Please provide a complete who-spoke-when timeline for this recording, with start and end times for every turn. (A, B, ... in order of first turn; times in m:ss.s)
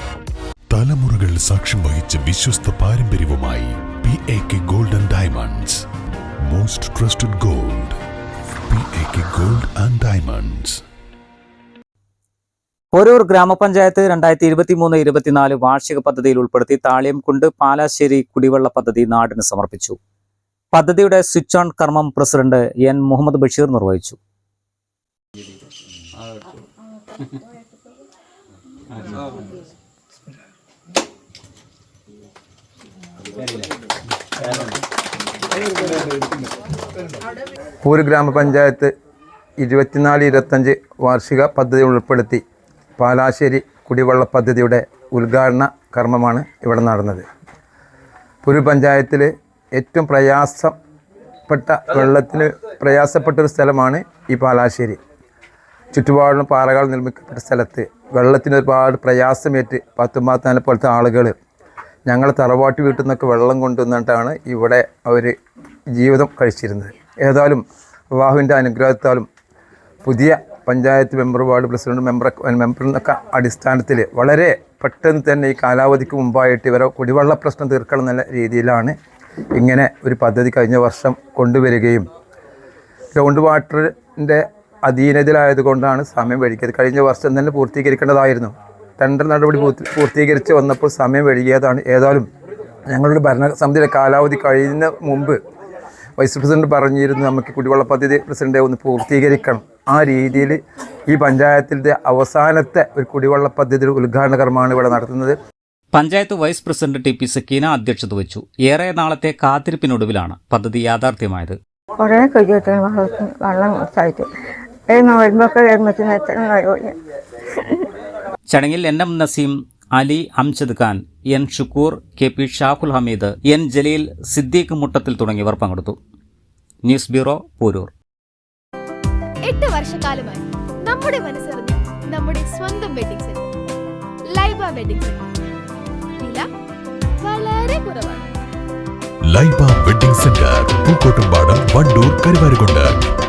0:00.7-0:05.8 A
0:06.4-0:08.0 A
0:08.7-0:10.8 A
0:12.9-0:20.0 B
0:20.7-0:24.2 B
0:37.8-0:38.9 C
0:39.6-0:42.4 C
0:43.0-0:47.2 C
0:48.4-0:50.8 C
0:51.5-0:55.0 C
0:55.9-1:01.3 C
1:02.1-1:05.3 C
1:06.0-1:09.3 C
1:10.0-1:18.9 C
1:19.6-1:22.0 C
1:23.1-1:32.3 C
1:32.9-1:35.4 C
1:36.2-1:45.4 C
1:45.9-1:51.6 B
1:52.0-1:54.3 D
1:54.9-1:57.0 D
1:57.6-1:57.9 D
1:58.5-2:06.0 B
2:06.8-2:07.9 B
2:09.4-2:13.4 E
2:14.3-2:15.3 E
2:17.2-2:18.3 E
2:19.2-2:23.0 A